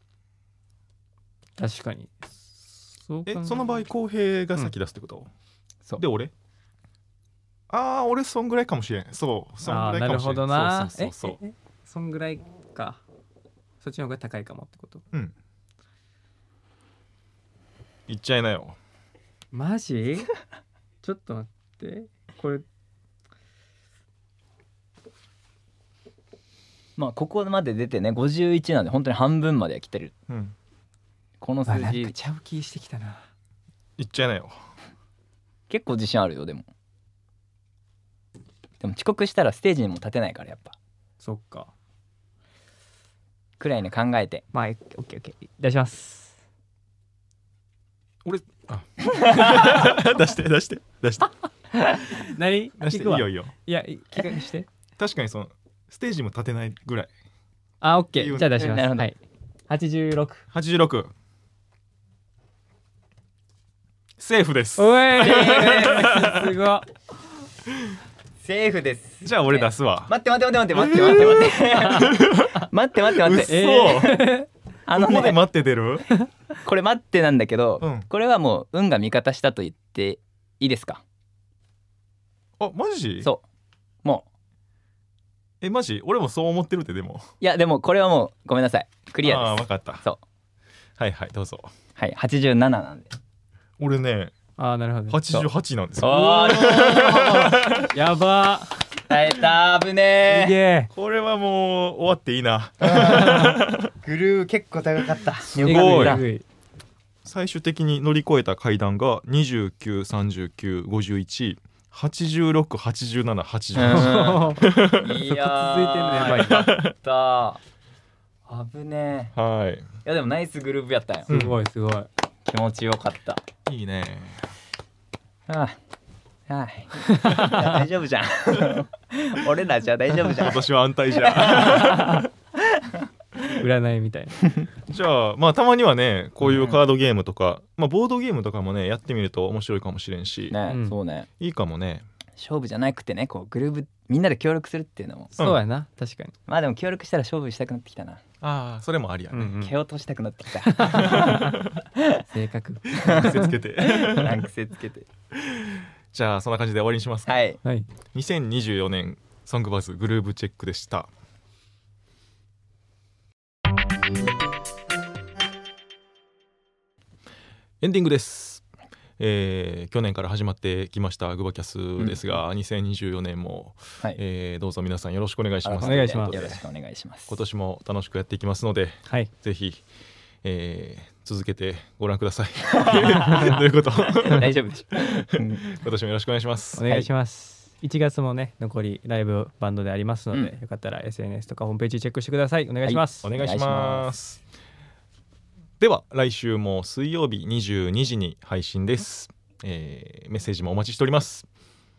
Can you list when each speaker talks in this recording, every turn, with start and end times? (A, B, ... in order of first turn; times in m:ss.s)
0:01.6-0:03.7 A
0:03.2-0:05.3 B
0:06.0-0:06.3 B
0:07.7-0:11.4 B
0:09.6-0:13.0 A
0:13.8-0:15.0 A
0:18.1-0:18.8 B
0:19.5-0:20.3 A
0:21.0-0:22.6 A
0:27.0-0:30.1 C
0:30.3-0:30.5 B
0:31.4-0:32.1 C
0:31.7-0:33.2 A
0:34.0-0:34.6 B
0:35.7-0:36.6 C
0:38.8-0:40.8 C
0:41.2-0:41.7 A
0:43.6-0:44.4 C
0:44.5-0:46.4 A
0:48.2-0:51.3 B
0:51.7-0:54.7 A
0:52.8-0:53.5 B
0:55.0-0:57.1 B
0:57.8-0:59.2 A
0:58.2-0:58.6 B
0:58.5-0:59.1 C
0:59.7-1:00.4 A
1:00.5-1:01.1 B
1:04.2-1:06.6 B
1:04.8-1:06.9 A
1:05.2-1:06.1 C
1:07.7-1:08.0 B
1:08.4-1:14.0 C
1:09.2-1:10.1 B
1:10.7-1:12.6 B
1:11.5-1:12.6 A
1:13.1-1:14.3 B
1:13.2-1:14.5 A
1:14.8-1:15.4 C
1:14.9-1:16.1 B
1:16.6-1:21.0 C
1:17.8-1:18.0 B
1:22.6-1:23.3 B
1:25.6-1:27.2 B
1:27.4-1:30.2 C
1:29.2-1:30.0 B
1:31.0-1:31.7 B
1:32.0-1:33.1 C
1:33.8-1:34.3 B
1:34.6-1:35.2 A
1:35.1-1:37.9 B
1:35.3-1:37.6 C
1:37.7-1:38.8 A
1:39.1-1:40.5 C
1:40.3-1:40.9 A
1:40.9-1:43.9 B
1:42.8-1:46.2 C
1:45.4-1:46.2 B
1:45.6-1:46.4 A
1:47.2-1:55.1 B
1:53.7-1:57.6 C
1:53.8-1:56.7 A
1:56.2-1:56.9 B
1:58.5-1:59.3 C
1:59.3-1:59.9 B
2:00.0-2:01.3 C
2:01.3-2:02.1 A
2:01.3-2:01.6 B
2:02.4-2:03.4 C
2:03.6-2:04.5 B
2:05.5-2:05.8 C
2:06.5-2:12.0 C
2:07.2-2:07.6 A
2:10.2-2:12.3 B
2:11.7-2:12.2 A
2:12.6-2:13.0 C
2:13.5-2:14.5 A
2:14.9-2:20.6 B
2:16.4-2:16.8 C
2:20.5-2:21.3 C
2:20.7-2:20.9 A
2:21.4-2:22.0 B
2:22.4-2:25.3 C
2:25.4-2:26.3 A
2:26.5-2:28.2 C
2:28.4-2:29.6 B
2:29.3-2:29.7 A
2:29.6-2:31.4 C
2:30.6-2:31.6 A
2:30.8-2:31.6 B
2:32.0-2:32.2 C
2:32.3-2:33.5 A
2:32.9-2:34.4 B
2:33.8-2:35.1 C
2:35.3-2:37.3 B
2:37.2-2:37.6 C
2:37.6-2:37.9 A
2:38.1-2:41.1 B
2:47.8-2:48.6 B
2:49.2-2:56.6 B
2:55.6-2:57.3 C
2:55.8-2:56.5 A
2:57.3-2:59.8 B
3:00.4-3:06.9 B
3:02.8-3:03.5 C
3:02.9-3:03.6 A
3:04.2-3:05.7 C
3:06.8-3:13.3 A
3:06.8-3:07.1 C
3:12.8-3:14.1 C
3:13.2-3:14.4 B
3:15.8-3:21.5 B